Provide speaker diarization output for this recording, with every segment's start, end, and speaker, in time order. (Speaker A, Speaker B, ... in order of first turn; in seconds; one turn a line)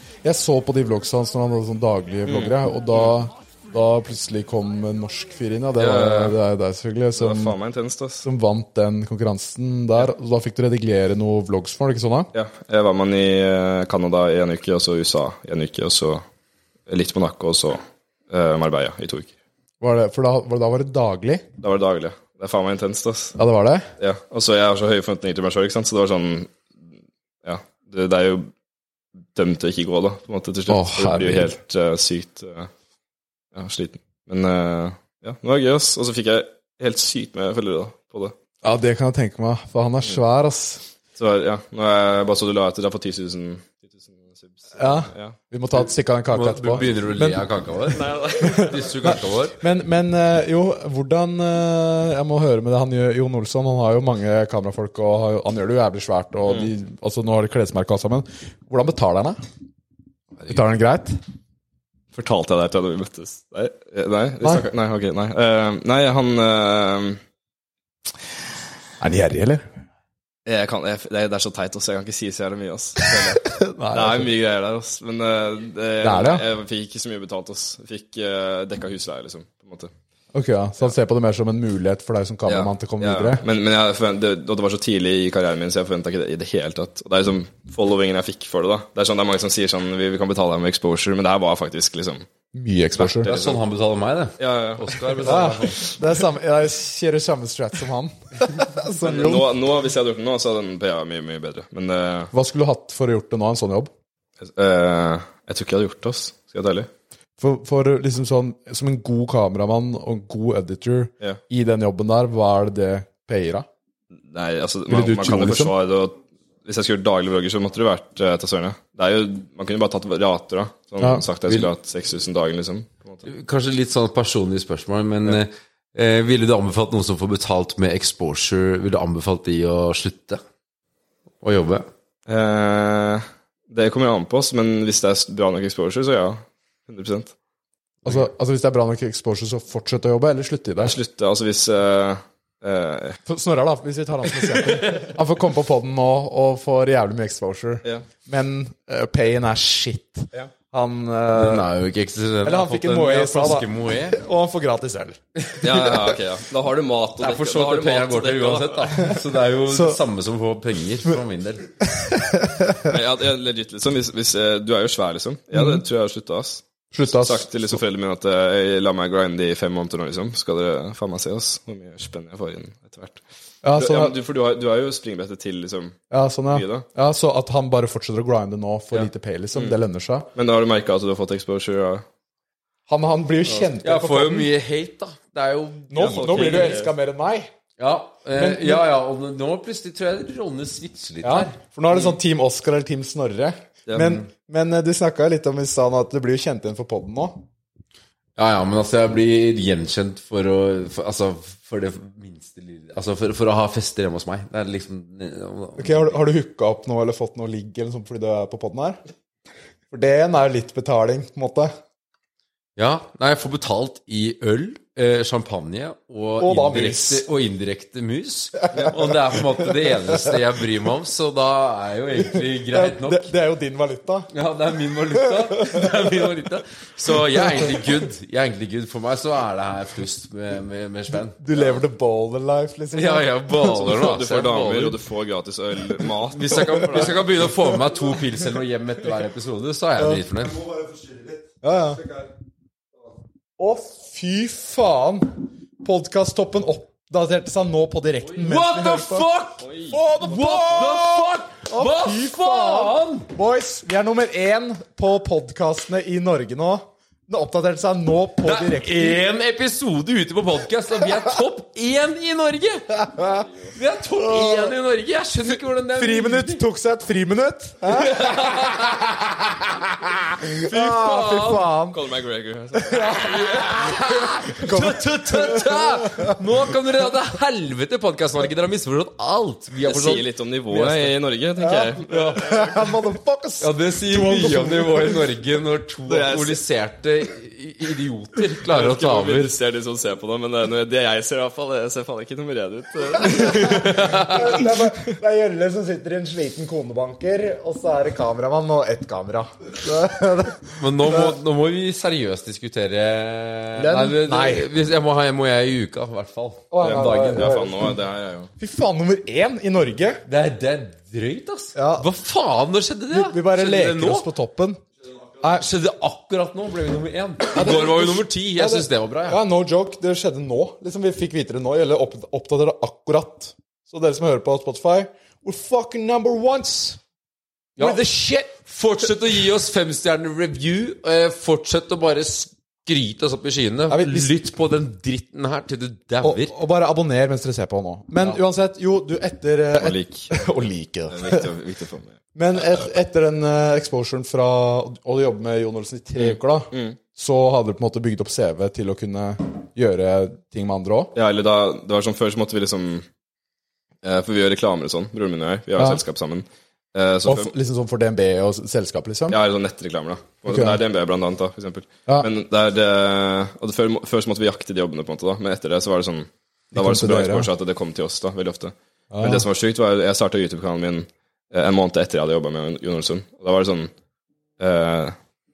Speaker A: 0.2-7.6
Speaker B: 2.2-3.1
Speaker B: 5.7-6.4
Speaker B: 7.2-8.2
Speaker A: 8.2-12.3
Speaker B: 12.3-16.2
Speaker B: 16.9-19.3
Speaker A: 19.8-21.4
Speaker B: 21.6-23.4
Speaker A: 23.4-23.9
Speaker B: 24.0-26.6
Speaker B: 27.4-28.5
Speaker B: 29.3-32.7
Speaker A: 30.7-31.5
Speaker B: 33.5-38.3
Speaker A: 38.6-40.8
Speaker B: 41.1-45.4
Speaker A: 44.8-59.4
Speaker C: 46.3-49.6
Speaker B: 47.9-49.0
Speaker A: 60.5-61.2
Speaker B: 62.1-67.2
Speaker A: 69.0-69.6
Speaker B: 70.5-79.9
Speaker A: 73.0-74.3
Speaker A: 76.0-76.4
Speaker A: 80.3-83.4
Speaker B: 82.5-92.3
Speaker A: 92.5-93.3
Speaker B: 93.0-93.6
Speaker C: 93.2-95.8
Speaker B: 94.4-95.6
Speaker A: 95.2-99.5
Speaker B: 99.0-102.3
Speaker A: 102.3-103.9
Speaker B: 104.4-106.9
Speaker A: 107.4-113.7
Speaker B: 114.3-123.3
Speaker A: 114.9-115.7
Speaker A: 121.0-121.2
Speaker C: 123.2-130.4
Speaker C: 131.4-131.9
Speaker B: 132.3-137.3
Speaker A: 138.0-140.9
Speaker B: 140.8-143.2
Speaker A: 143.2-151.7
Speaker B: 144.7-145.1
Speaker C: 151.3-154.2
Speaker A: 152.4-155.6
Speaker B: 155.6-159.1
Speaker C: 157.2-161.7
Speaker A: 159.7-160.0
Speaker A: 161.9-162.8
Speaker B: 162.8-173.2
Speaker A: 165.5-165.8
Speaker A: 166.9-167.8
Speaker A: 173.6-174.1
Speaker B: 173.7-176.0
Speaker A: 176.1-180.3
Speaker B: 176.5-176.8
Speaker B: 178.9-179.8
Speaker B: 180.3-182.0
Speaker A: 182.9-184.5
Speaker C: 183.8-186.8
Speaker A: 185.9-187.5
Speaker B: 186.0-186.9
Speaker C: 187.8-191.6
Speaker A: 188.3-188.9
Speaker A: 191.2-197.4
Speaker B: 191.9-192.2
Speaker B: 193.9-194.2
Speaker C: 198.3-206.2
Speaker A: 205.8-209.0
Speaker A: 209.9-211.7
Speaker C: 212.8-223.3
Speaker A: 216.4-217.2
Speaker A: 222.6-224.3
Speaker C: 224.3-231.7
Speaker A: 225.2-225.9
Speaker A: 227.4-227.8
Speaker A: 231.4-233.9
Speaker C: 232.9-235.0
Speaker B: 233.7-237.4
Speaker C: 236.2-240.8
Speaker A: 241.6-242.2
Speaker A: 243.6-249.2
Speaker C: 248.3-253.3
Speaker B: 249.6-250.7
Speaker A: 249.9-259.2
Speaker C: 258.4-263.1
Speaker B: 263.2-263.7
Speaker C: 263.7-266.6
Speaker A: 264.3-264.7
Speaker A: 265.9-268.4
Speaker C: 267.9-269.4
Speaker A: 270.0-272.0
Speaker C: 270.4-271.7
Speaker B: 271.9-273.5
Speaker A: 272.8-276.3
Speaker C: 272.9-281.1
Speaker B: 279.8-282.6
Speaker A: 281.6-285.2
Speaker C: 282.0-282.5
Speaker C: 283.6-289.5
Speaker B: 286.1-286.6
Speaker B: 288.6-294.6
Speaker A: 293.3-301.4
Speaker C: 293.6-294.7
Speaker C: 300.8-307.6
Speaker A: 303.8-304.7
Speaker A: 306.7-307.9
Speaker B: 306.8-308.5
Speaker A: 308.6-310.2
Speaker C: 310.3-314.3
Speaker A: 311.8-312.1
Speaker A: 313.1-314.8
Speaker C: 315.4-319.4
Speaker A: 317.5-327.0
Speaker C: 327.8-336.5
Speaker A: 327.8-328.5
Speaker A: 333.9-334.3
Speaker A: 336.2-341.5
Speaker B: 339.8-340.4
Speaker B: 341.1-342.8
Speaker A: 342.3-351.1
Speaker B: 346.1-347.0
Speaker B: 351.1-353.1
Speaker B: 354.0-357.5
Speaker A: 355.8-356.0
Speaker A: 357.2-359.4
Speaker B: 359.3-373.9
Speaker A: 360.5-360.8
Speaker A: 366.7-367.5
Speaker A: 369.1-369.4
Speaker B: 374.6-375.1